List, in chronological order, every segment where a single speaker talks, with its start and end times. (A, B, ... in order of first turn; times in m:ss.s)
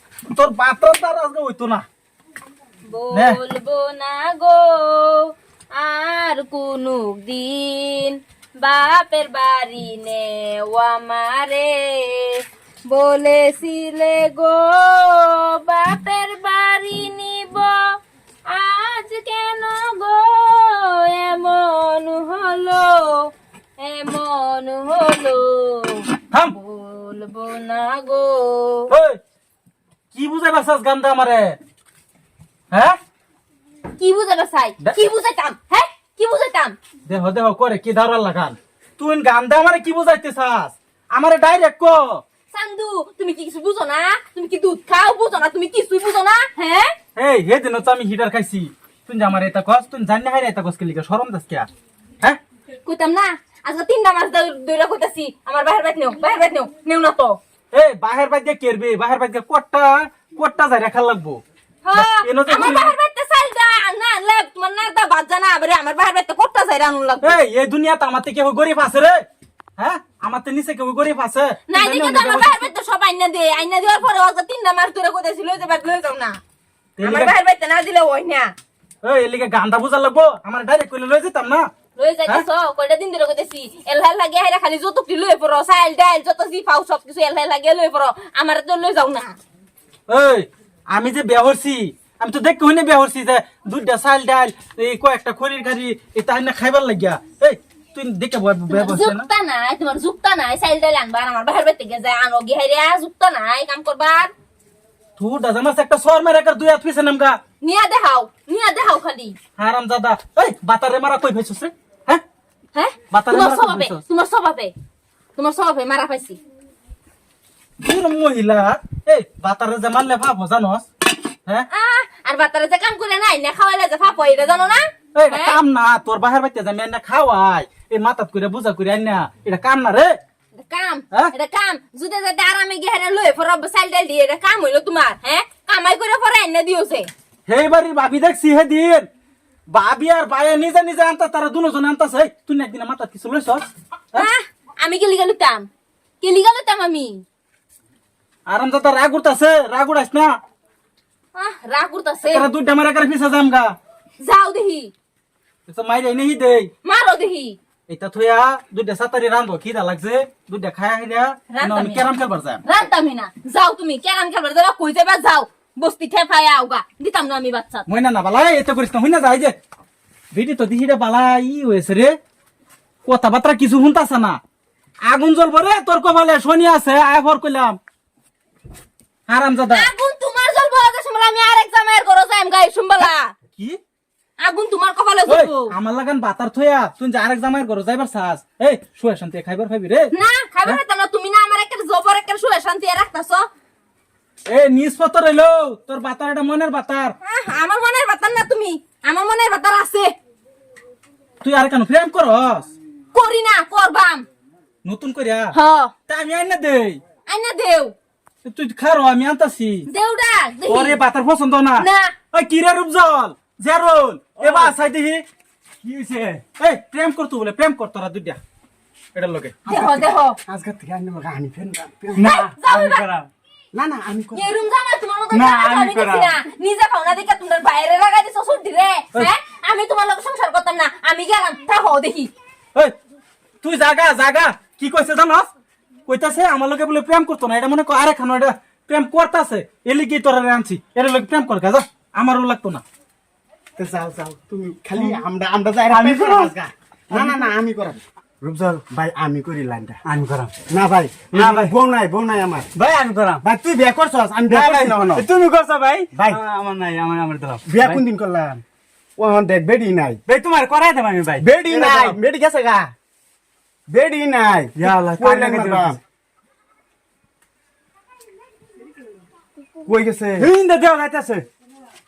0:00.3-0:01.8 A
0:02.9-0:17.9 B
0:03.1-0:03.4 A
0:18.5-0:28.9 B
0:28.9-0:29.2 A
0:30.1-0:31.6 A
0:32.7-0:33.0 A
0:34.0-0:36.8 B
0:37.1-0:42.2 A
0:42.5-0:47.0 B
0:47.2-0:51.7 A
0:52.8-0:57.4 B
0:57.7-1:01.4 A
1:01.8-1:07.4 B
1:01.9-1:02.9 A
1:07.2-1:09.2 A
1:09.8-1:12.7 A
1:11.7-1:16.4 B
1:17.0-1:17.3 A
1:17.0-1:18.5 B
1:19.0-1:21.7 A
1:22.0-1:29.4 B
1:30.1-1:39.3 A
1:38.7-1:44.3 B
1:45.2-1:47.4 A
1:47.6-1:49.4 B
1:49.6-1:52.2 A
1:52.7-1:54.7 B
1:53.1-1:54.0 A
1:55.4-1:56.4 B
1:57.8-2:00.9 A
2:01.7-2:05.6 B
2:05.1-2:10.2 A
2:10.6-2:17.1 B
2:17.5-2:19.1 A
2:19.7-2:24.3 A
2:24.1-2:25.7 B
2:26.2-2:27.2 B
2:28.5-2:30.4 A
2:31.3-2:32.5 B
2:32.2-2:33.8 A
2:34.2-2:34.9 B
2:35.7-2:36.7 A
2:36.8-2:37.6 B
2:37.9-2:42.6 A
2:41.5-2:42.1 B
2:42.6-2:47.8 B
2:47.9-2:49.6 A
2:50.3-2:52.2 A
2:53.0-2:54.4 A
2:55.0-2:57.8 A
2:59.3-2:59.9 A
2:59.7-3:03.3 B
3:04.4-3:05.7 B
3:05.2-3:10.1 A
3:10.1-3:13.5 B
3:14.5-3:17.2 A
3:17.2-3:20.1 B
3:21.4-3:22.7 A
3:23.1-3:24.2 B
3:24.8-3:25.6 A
3:25.5-3:25.9 B
3:26.1-3:27.0 A
3:27.3-3:27.9 B
3:28.4-3:29.9 A
3:29.9-3:31.0 B
3:30.6-3:35.2 A
3:31.8-3:32.1 B
3:34.4-3:34.7 C
3:35.8-3:36.4 C
3:36.6-3:38.4 A
3:39.1-3:39.6 A
3:39.6-3:40.4 B
3:39.7-3:42.5 C
3:42.2-3:43.1 B
3:42.2-3:43.1 D
3:43.7-3:44.5 C
3:44.3-3:52.3 B
3:45.4-3:46.2 A
3:45.6-3:46.1 D
3:53.6-3:55.5 A
3:56.1-4:02.8 A
4:03.8-4:10.1 C
4:05.9-4:06.5 D
4:10.1-4:10.5 D
4:10.6-4:12.7 C
4:11.4-4:11.7 A
4:12.9-4:13.2 D
4:13.3-4:15.3 C
4:14.5-4:18.0 A
4:15.0-4:16.0 D
4:16.1-4:16.4 C
4:17.6-4:18.6 C
4:19.2-4:20.2 C
4:20.4-4:22.1 A
4:21.4-4:22.9 C
4:23.9-4:26.0 C
4:24.8-4:25.9 A
4:29.8-4:30.5 C
4:30.4-4:31.4 D